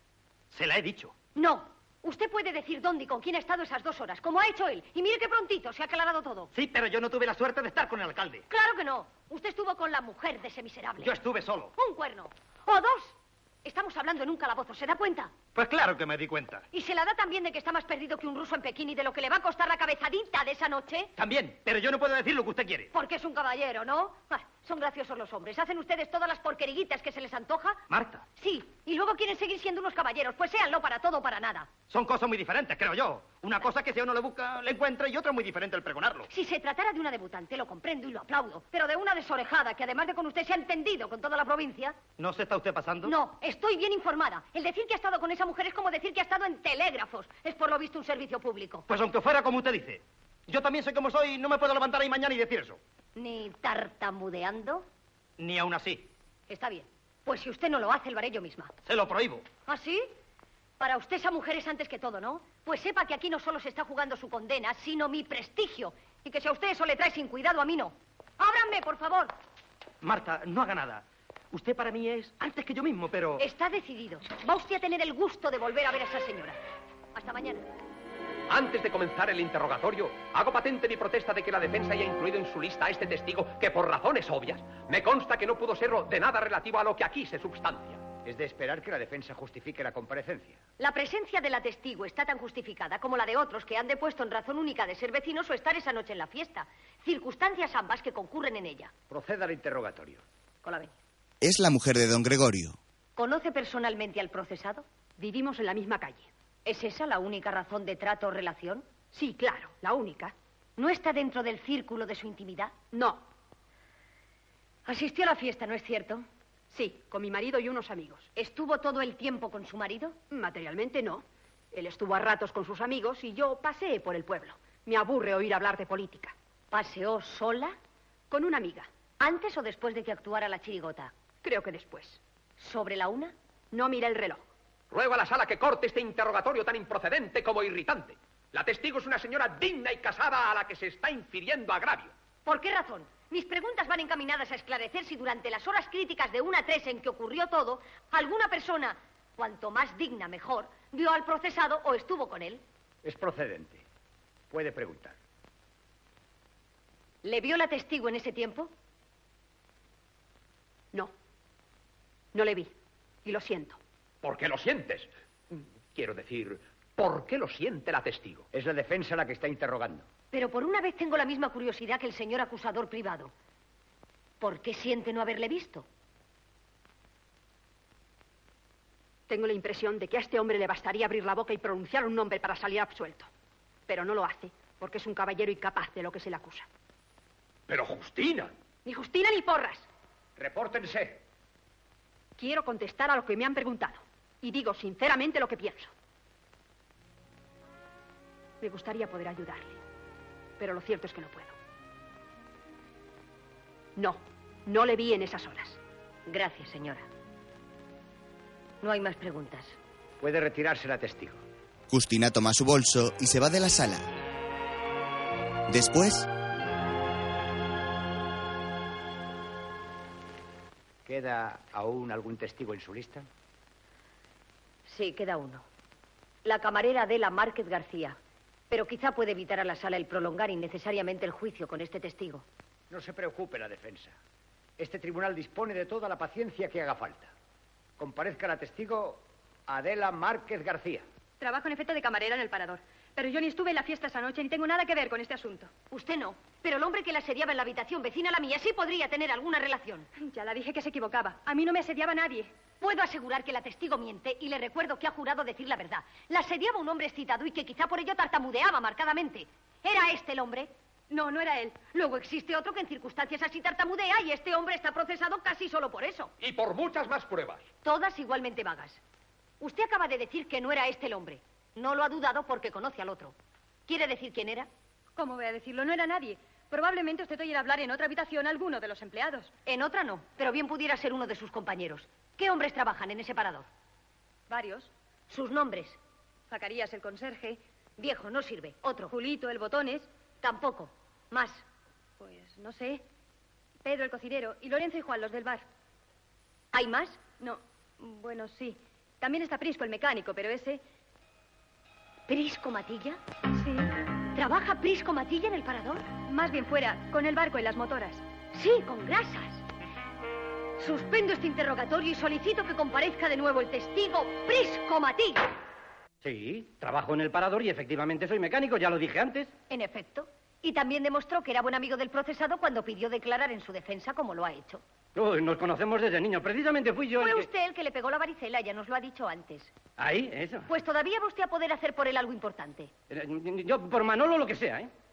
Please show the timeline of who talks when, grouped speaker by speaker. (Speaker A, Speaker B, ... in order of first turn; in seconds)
Speaker A: 0.5-1.1, 6.5-8.4, 11.0-11.7, 15.6-16.6, 21.2-22.9, 27.9-28.2, 31.9-36.3, 42.2-43.1, 48.9-52.8, 55.4-56.1, 58.9-59.4, 70.0-73.4
Speaker B: 1.4-6.5, 8.5-11.1, 11.8-15.3, 16.7-21.1, 22.9-27.8, 28.4-31.7, 36.3-42.0, 43.0-48.9, 53.2-54.9, 56.5-58.7, 59.7-60.1, 60.8-69.3, 73.4-76.6, 77.2-77.7, 90.8-98.9, 100.6-101.0, 103.2-104.8, 106.7-108.9, 110.8-112.7, 114.9-116.3, 118.3-120.2, 126.7-127.8, 129.2-131.1, 132.6-133.3, 142.4-152.6, 157.2-158.7, 170.3-173.3, 174.4-175.9, 206.3-207.1, 208.8-209.8, 224.9-225.7, 226.4-228.2, 228.7-232.4, 245.9-250.1, 252.8-260.7, 261.9-266.3, 267.8-269.0, 269.6-273.3, 273.9-274.7, 279.7-283.7, 285.3-286.0, 288.0-289.1, 290.4-291.6, 296.7-297.2, 302.3-303.2, 304.4-306.1, 308.5-309.6, 310.8-315.5, 319.7-324.8, 327.2-329.7, 330.7-332.9
Speaker C: 78.5-88.1, 134.9-142.1, 164.2-168.5, 187.7-188.5, 266.4-267.7
Speaker D: 88.2-90.6, 99.1-100.2, 153.0-153.8, 154.5-155.2, 168.5-170.1, 190.4-191.2, 210.2-211.4, 221.1-223.3, 232.9-234.2, 234.8-237.3, 238.0-241.0
Speaker E: 101.4-102.8, 211.9-214.1, 215.7-216.3
Speaker F: 105.2-106.3, 109.1-110.3, 112.9-113.2, 116.7-118.3, 120.3-126.3, 128.3-128.9, 131.4-132.2, 133.7-134.5, 162.3-162.7, 163.2-163.8, 179.3-183.3, 183.9-186.7, 188.8-189.9, 192.4-195.9, 198.6-199.8, 200.6-201.6, 204.0-205.8
Speaker G: 241.4-245.7, 250.2-252.5, 261.1-261.8, 275.2-279.5, 284.5-284.9, 286.5-287.6, 289.1-290.1, 292.2-293.0, 293.8-295.7, 297.4-300.8, 303.6-303.9, 306.3-308.2
Speaker H: 316.2-319.5, 325.1-327.5, 330.0-330.7, 333.1-334.9